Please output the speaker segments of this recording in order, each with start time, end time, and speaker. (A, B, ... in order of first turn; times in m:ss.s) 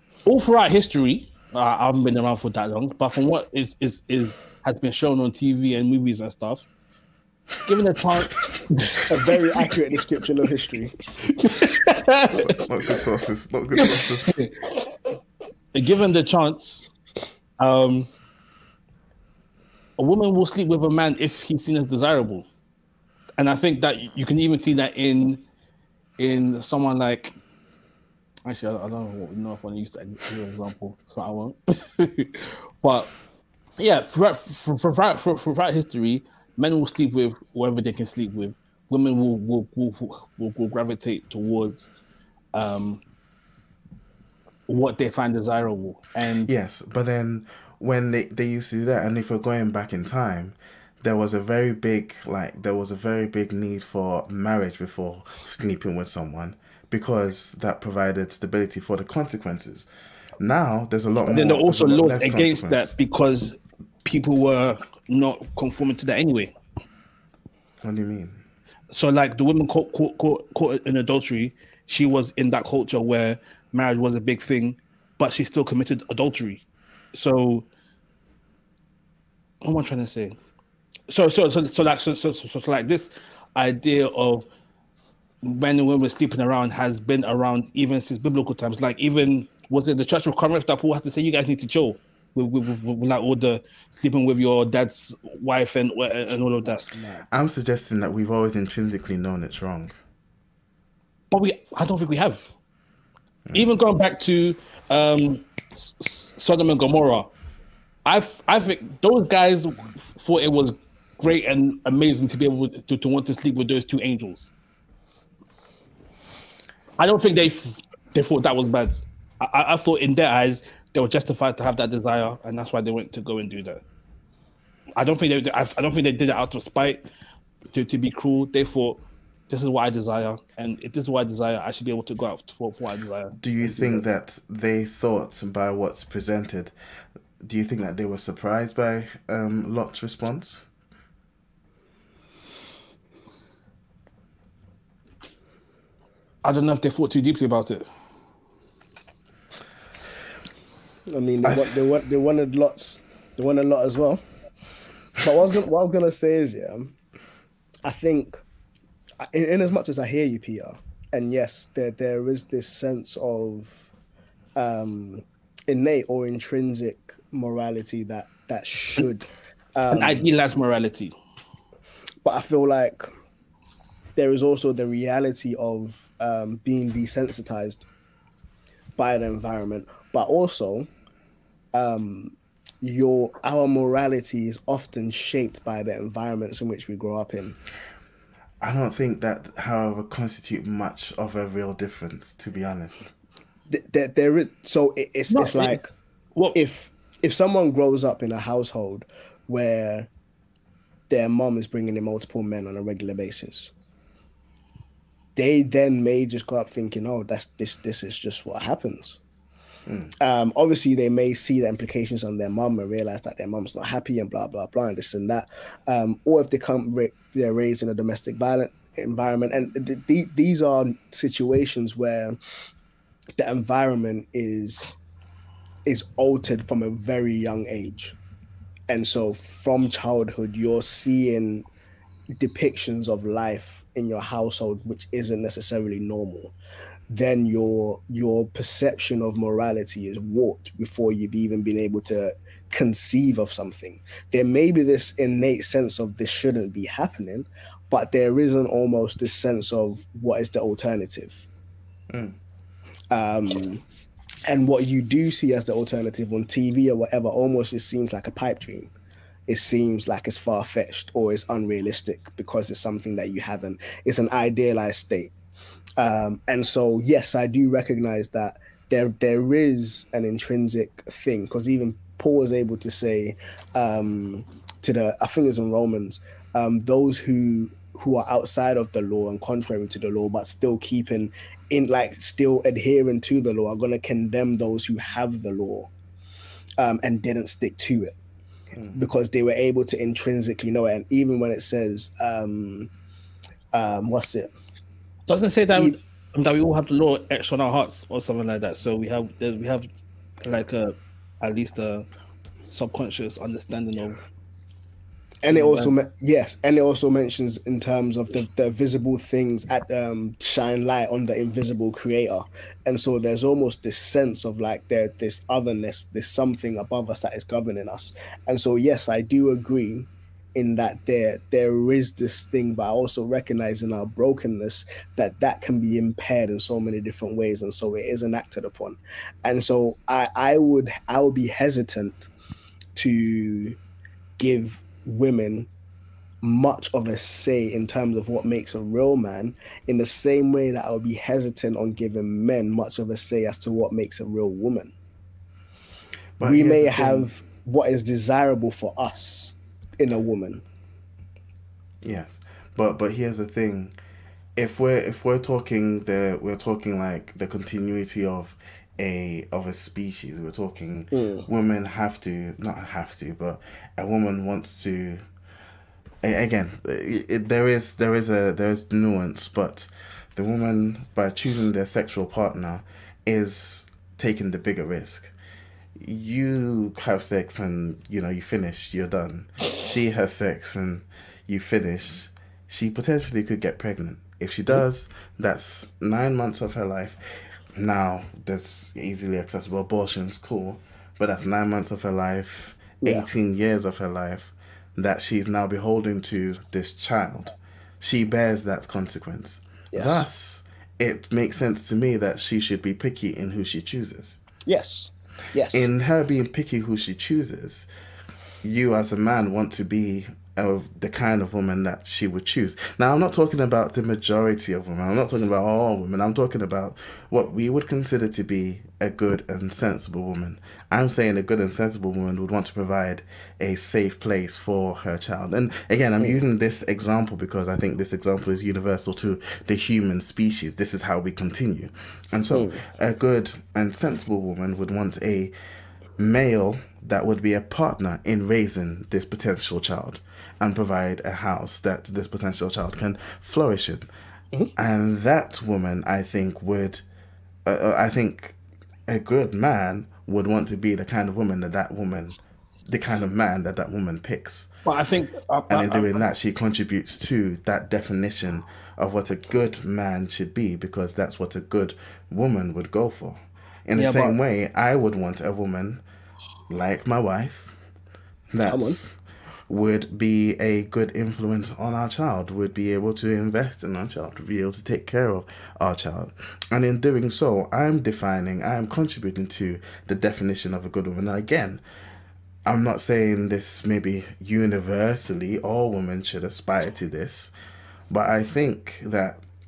0:00.2-0:06.7 A
0:07.6-0:09.7 A
0:09.1-0:11.0 B
0:11.4-0:13.0 A
0:12.3-0:14.4 C
0:13.8-0:14.8 A
0:15.7-0:16.9 A
0:17.6-0:18.1 A
0:20.0-0:22.5 A
0:23.4-0:25.4 A
0:26.2-0:27.4 A
0:28.4-0:33.1 A
0:33.8-0:41.9 A
0:42.5-0:43.0 A
0:44.7-0:46.5 A
0:46.4-0:59.9 C
1:00.4-1:02.9 C
1:01.3-1:06.5 A
1:07.8-1:08.4 C
1:08.9-1:17.7 A
1:19.6-1:20.4 A
1:21.1-1:24.5 A
1:25.4-1:36.9 A
1:36.3-1:37.3 B
1:37.3-1:39.9 C
1:41.3-1:42.5 A
1:43.5-1:47.3 A
1:48.0-1:54.5 A
1:57.0-2:03.8 A
2:05.0-2:07.0 A
2:07.7-2:14.0 A
2:13.4-2:16.7 C
2:17.4-2:20.6 C
2:26.4-2:27.9 A
2:31.1-2:34.2 B
2:35.2-2:37.0 B
2:37.8-2:38.4 B
2:39.2-2:43.9 B
2:44.6-2:50.3 B
2:49.9-2:51.1 A
2:52.2-2:53.1 B
2:54.2-2:57.9 B
2:59.0-3:00.9 B
3:01.7-3:07.6 B
3:08.6-3:13.1 C
3:13.7-3:15.9 B
3:15.3-3:15.8 A
3:16.5-3:20.1 B
3:21.1-3:23.7 B
3:25.4-3:29.2 B
3:30.2-3:42.4 B
3:43.4-3:45.0 B
3:45.9-3:48.2 B
3:48.9-3:51.7 B
3:52.4-3:56.5 B
3:57.1-4:11.5 B
4:12.1-4:12.4 C
4:13.1-4:13.8 B
4:14.5-4:18.9 B
4:19.5-4:25.3 B
4:26.0-4:45.9 B
4:46.8-4:48.2 B
4:48.9-4:52.9 B
4:53.7-4:54.5 B
4:55.3-4:59.9 A
5:00.4-5:02.1 A
5:02.7-5:04.3 A
5:05.4-5:32.3 B
5:05.5-5:05.9 A
5:33.0-5:33.8 B
5:34.4-5:35.7 B
5:36.4-5:44.9 B
5:46.4-5:47.3 C
5:46.4-5:50.6 B
5:52.0-5:53.9 C
5:54.6-6:05.2 C
6:01.1-6:01.5 B
6:06.2-6:15.3 C
6:16.0-6:27.2 C
6:27.8-6:44.4 C
6:39.9-6:40.3 B
6:44.7-6:45.9 B
6:45.7-6:47.9 C
6:48.6-7:15.5 C
7:12.5-7:12.8 B
7:16.2-7:24.1 C
7:24.8-7:27.0 C
7:27.6-7:34.7 C
7:34.9-7:36.2 A
7:35.7-7:46.0 C
7:43.9-7:44.4 A
7:46.7-7:47.8 C
7:48.5-7:49.2 C
7:48.7-7:49.0 B
7:49.7-8:01.8 C
8:02.6-8:07.5 C
8:08.1-8:09.4 C